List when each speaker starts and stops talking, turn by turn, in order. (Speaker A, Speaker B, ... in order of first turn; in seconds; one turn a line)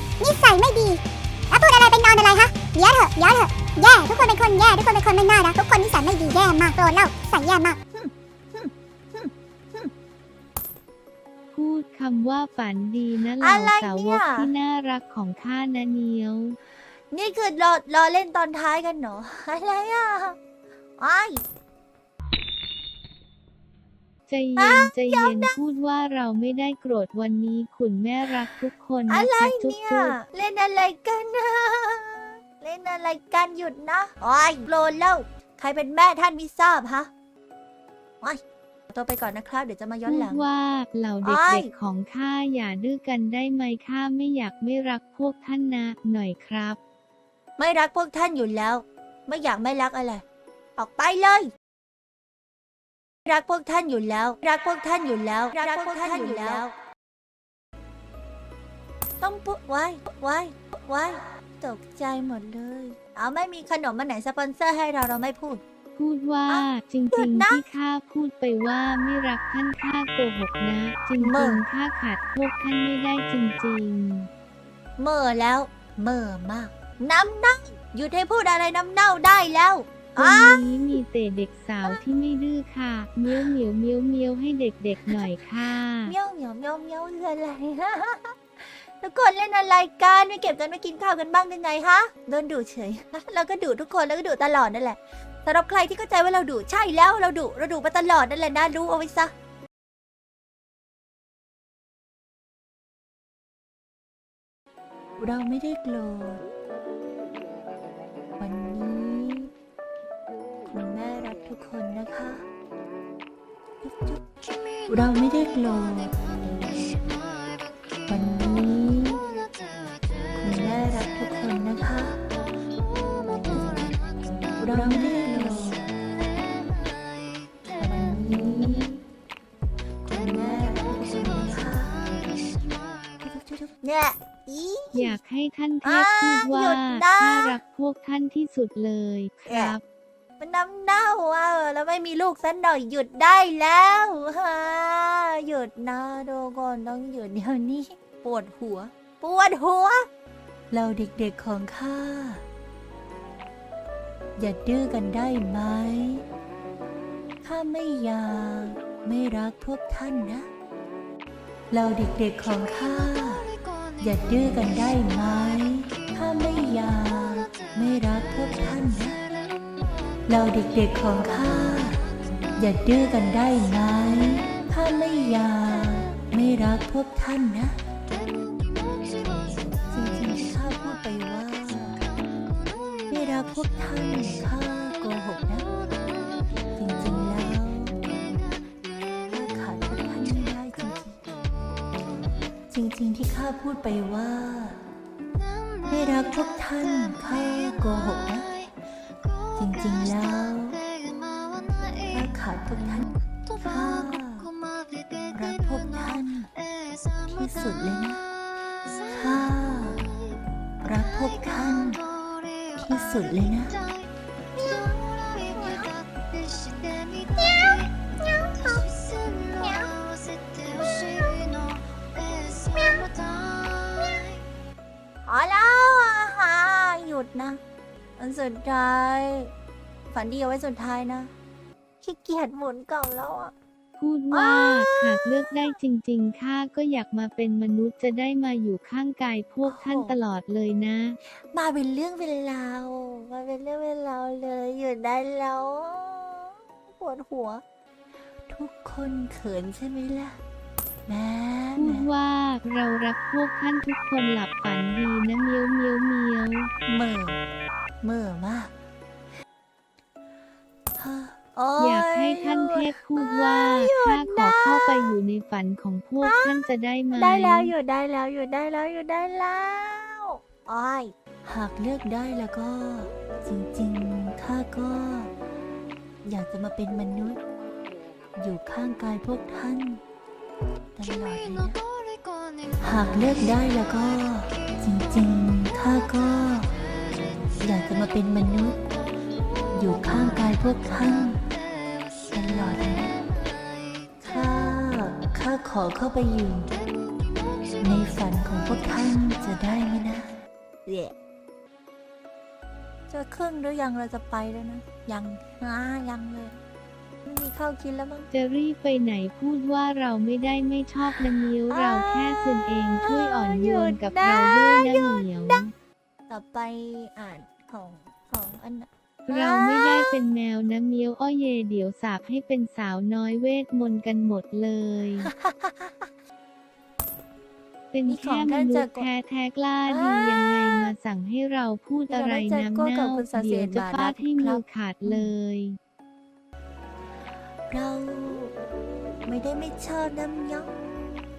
Speaker A: 0.2-7.8
Speaker B: 7.9-9.9
Speaker C: 11.5-16.6
Speaker B: 13.4-14.5
Speaker B: 17.1-20.4
Speaker B: 21.0-21.4
Speaker C: 24.3-30.2
Speaker B: 24.6-25.6
Speaker B: 29.1-37.1
Speaker B: 38.2-40.5
Speaker C: 40.1-46.8
Speaker B: 41.2-41.7
Speaker B: 47.6-50.2
Speaker B: 50.8-51.5
Speaker B: 53.3-56.7
Speaker B: 59.2-65.6
Speaker C: 66.0-74.3
Speaker B: 66.5-67.6
Speaker B: 71.2-71.7
Speaker B: 75.0-80.6
Speaker C: 80.2-86.2
Speaker B: 86.0-99.3
Speaker B: 105.2-106.4
Speaker B: 108.4-109.5
Speaker B: 110.7-112.5
Speaker B: 113.8-114.2
Speaker B: 114.9-116.2
Speaker B: 118.1-119.2
Speaker B: 120.4-122.2
Speaker B: 123.5-123.8
Speaker B: 124.6-125.9
Speaker C: 124.7-125.5
Speaker B: 127.8-129.0
Speaker B: 130.1-132.0
Speaker B: 133.2-135.2
Speaker C: 134.9-139.8
Speaker B: 135.8-137.6
Speaker B: 139.5-139.8
Speaker B: 140.4-150.1
Speaker B: 150.7-152.4
Speaker B: 154.4-156.2
Speaker B: 157.4-160.5
Speaker B: 161.7-169.2
Speaker B: 170.3-172.0
Speaker B: 172.6-177.8
Speaker B: 179.9-182.0
Speaker B: 183.1-185.7
Speaker B: 186.8-188.0
Speaker B: 189.2-191.2
Speaker B: 192.7-194.8
Speaker B: 195.9-198.6
Speaker B: 199.6-200.8
Speaker B: 202.1-204.5
Speaker B: 205.3-206.5
Speaker B: 207.3-208.3
Speaker B: 209.1-210.1
Speaker B: 210.8-212.0
Speaker B: 212.8-213.8
Speaker B: 214.6-215.9
Speaker B: 217.2-218.9
Speaker B: 219.4-220.0
Speaker B: 222.6-223.2
Speaker B: 223.8-224.3
Speaker B: 225.2-227.6
Speaker B: 228.2-229.5
Speaker B: 230.1-231.3
Speaker B: 232.0-233.5
Speaker C: 234.0-241.2
Speaker B: 234.3-235.7
Speaker B: 239.7-240.2
Speaker B: 241.5-247.6
Speaker B: 248.5-250.4
Speaker B: 251.1-252.1
Speaker C: 251.8-256.7
Speaker B: 256.9-257.4
Speaker B: 258.0-258.7
Speaker B: 261.0-265.1
Speaker C: 261.8-267.7
Speaker B: 266.2-275.3
Speaker B: 276.2-277.4
Speaker B: 278.4-280.0
Speaker B: 281.0-281.8
Speaker B: 282.8-286.7
Speaker B: 287.6-288.8
Speaker B: 289.7-291.4
Speaker B: 292.3-293.2
Speaker B: 294.2-296.7
Speaker B: 297.8-300.3
Speaker B: 300.9-301.1
Speaker B: 303.1-306.6
Speaker B: 307.2-308.3
Speaker C: 308.3-315.7
Speaker B: 311.7-315.6
Speaker B: 316.3-320.1
Speaker C: 319.3-325.3
Speaker B: 325.2-326.1
Speaker C: 327.9-335.8
Speaker B: 328.1-329.1
Speaker B: 329.9-330.9
Speaker B: 332.1-335.3
Speaker B: 337.7-338.5
Speaker B: 339.3-340.7